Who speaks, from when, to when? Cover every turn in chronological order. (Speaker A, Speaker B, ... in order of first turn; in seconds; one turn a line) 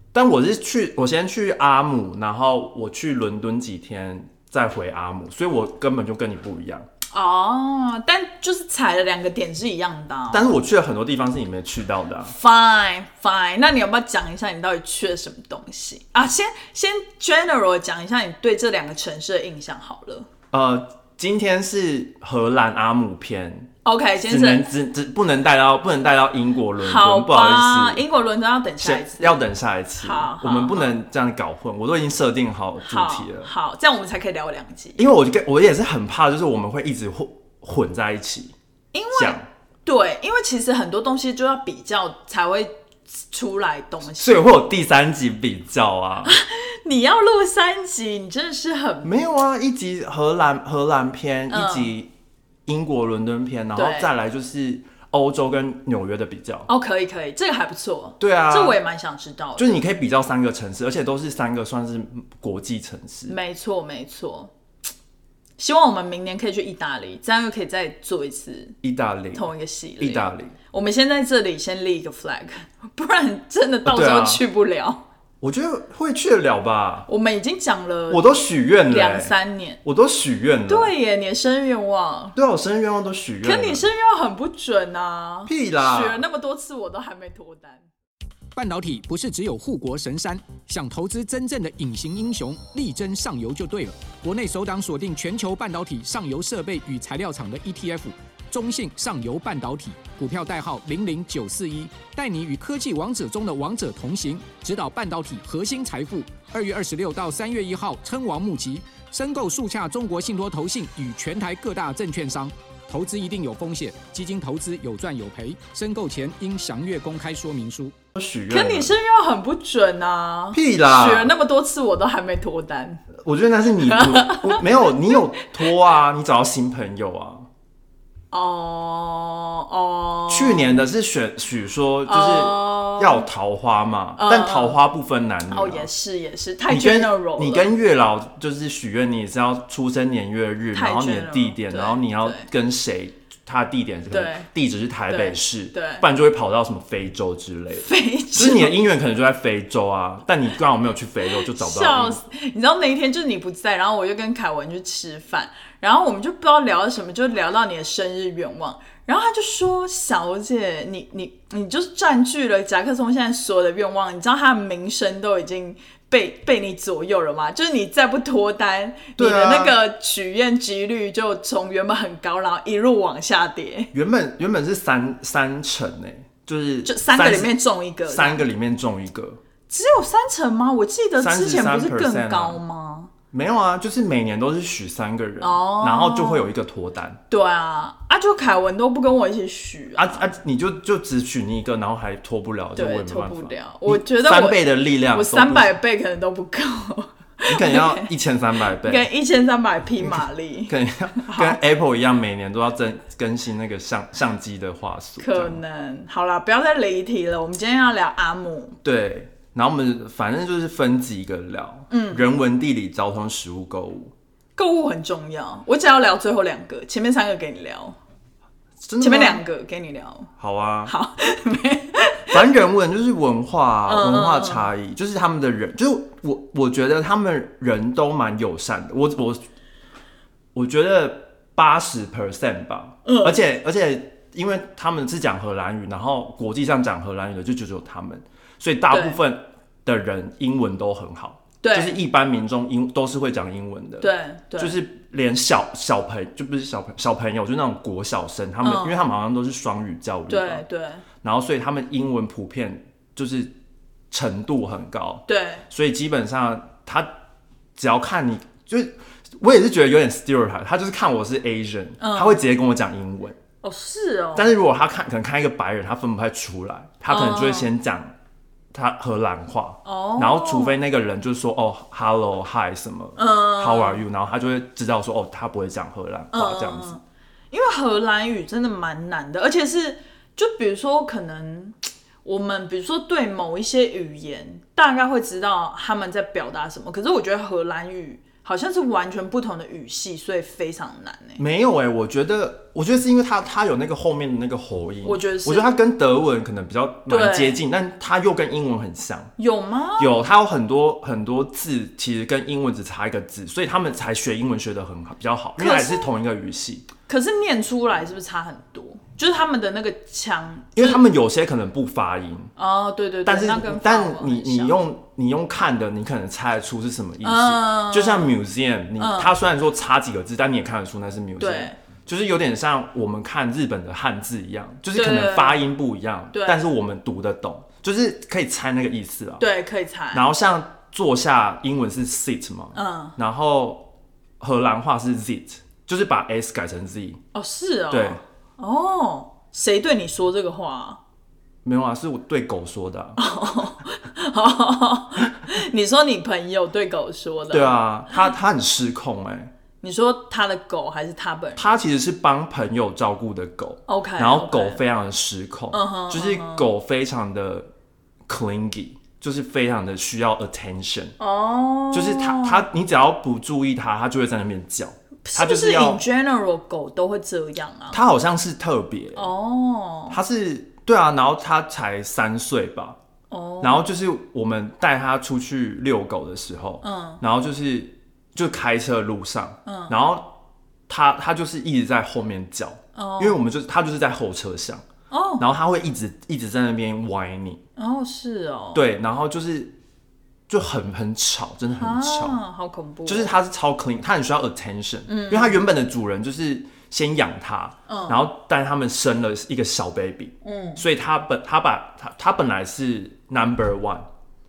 Speaker A: 0.1-6.9
Speaker B: 7.1-10.6
Speaker A: 10.3-12.3
Speaker B: 12.3-20.3
Speaker A: 20.5-23.7
Speaker B: 23.8-24.6
Speaker A: 24.3-28.0
Speaker B: 26.8-29.5
Speaker A: 28.8-33.5
Speaker B: 30.0-30.9
Speaker B: 32.8-35.1
Speaker A: 35.0-38.5
Speaker B: 38.9-44.5
Speaker A: 39.1-39.4
Speaker A: 44.1-46.4
Speaker B: 46.2-49.1
Speaker A: 49.0-52.1
Speaker B: 51.5-51.9
Speaker A: 52.6-56.7
Speaker B: 53.7-54.1
Speaker B: 56.7-59.8
Speaker A: 58.2-58.8
Speaker A: 59.6-63.4
Speaker B: 63.3-64.5
Speaker B: 65.6-68.8
Speaker A: 68.8-69.5
Speaker B: 69.3-75.0
Speaker A: 70.0-70.5
Speaker A: 73.8-74.4
Speaker A: 75.4-77.1
Speaker B: 77.1-78.3
Speaker A: 78.1-79.3
Speaker B: 78.8-79.8
Speaker A: 79.8-80.9
Speaker B: 80.7-82.3
Speaker A: 82.3-83.8
Speaker B: 83.4-87.8
Speaker A: 85.5-86.2
Speaker C: 88.5-117.9
Speaker A: 118.1-118.9
Speaker B: 118.5-123.0
Speaker A: 120.5-121.3
Speaker A: 123.2-127.5
Speaker B: 123.8-124.6
Speaker B: 128.3-130.8
Speaker A: 130.3-135.9
Speaker B: 132.1-133.3
Speaker B: 134.2-134.8
Speaker B: 135.5-137.7
Speaker A: 136.7-152.2
Speaker B: 140.7-142.5
Speaker B: 144.1-144.5
Speaker B: 145.1-146.0
Speaker B: 147.8-148.8
Speaker B: 151.4-173.9
Speaker A: 169.2-169.8
Speaker A: 173.9-177.5
Speaker B: 176.8-178.5
Speaker A: 178.1-179.4
Speaker B: 179.7-183.1
Speaker A: 181.2-182.6
Speaker A: 183.3-187.2
Speaker B: 185.4-186.5
Speaker B: 187.3-190.3
Speaker A: 189.9-195.8
Speaker B: 192.8-198.1
Speaker A: 197.5-199.1
Speaker B: 198.8-201.6
Speaker A: 200.0-205.6
Speaker B: 205.2-208.8
Speaker A: 208.8-214.1
Speaker B: 211.9-212.3
Speaker B: 214.6-218.0
Speaker A: 218.8-219.4
Speaker B: 219.0-220.3
Speaker A: 220.4-220.9
Speaker B: 220.9-222.4
Speaker A: 222.3-229.4
Speaker B: 223.9-224.7
Speaker A: 230.5-250.6
Speaker B: 233.0-233.4
Speaker B: 238.9-239.2
Speaker B: 241.6-242.0
Speaker B: 244.0-244.8
Speaker B: 248.6-249.0
Speaker B: 250.3-251.0
Speaker A: 251.2-253.5
Speaker A: 254.1-257.1
Speaker B: 255.3-255.7
Speaker A: 257.8-263.4
Speaker B: 262.0-262.4
Speaker B: 263.6-264.5
Speaker A: 264.3-268.1
Speaker B: 267.1-267.7
Speaker A: 268.7-277.0
Speaker B: 269.8-270.8
Speaker B: 273.2-274.0
Speaker B: 276.3-291.4
Speaker A: 291.4-299.3
Speaker B: 295.0-295.7
Speaker B: 297.1-297.6
Speaker B: 299.4-300.1
Speaker A: 300.0-306.9
Speaker B: 305.6-306.1
Speaker B: 307.1-311.0
Speaker A: 310.7-312.5
Speaker B: 312.6-314.8
Speaker A: 313.2-329.4
Speaker B: 317.2-318.4
Speaker B: 319.0-319.3
Speaker B: 321.4-321.7
Speaker B: 324.9-325.7
Speaker B: 326.3-326.7
Speaker B: 329.4-330.2
Speaker A: 330.1-337.2
Speaker B: 332.7-333.1
Speaker B: 337.3-341.0
Speaker A: 337.9-338.2
Speaker A: 341.6-343.2
Speaker B: 343.2-347.8
Speaker A: 347.5-349.5
Speaker B: 349.8-351.8
Speaker A: 351.6-357.7
Speaker B: 353.9-354.8
Speaker B: 355.7-356.7
Speaker A: 358.3-361.1
Speaker B: 361.2-362.7
Speaker A: 361.9-366.0
Speaker B: 365.2-368.0
Speaker A: 367.9-369.3
Speaker B: 369.1-370.2
Speaker A: 370.1-373.0
Speaker B: 373.3-373.9
Speaker A: 373.6-380.4
Speaker B: 376.8-377.2
Speaker B: 379.6-380.0
Speaker A: 380.9-384.8
Speaker B: 382.9-383.4
Speaker B: 385.1-385.4
Speaker A: 385.4-387.6
Speaker B: 387.8-388.8
Speaker A: 388.7-389.7
Speaker A: 390.5-392.4
Speaker B: 391.8-393.4
Speaker A: 393.1-404.1
Speaker B: 395.1-395.6
Speaker B: 397.9-398.2
Speaker B: 400.4-400.8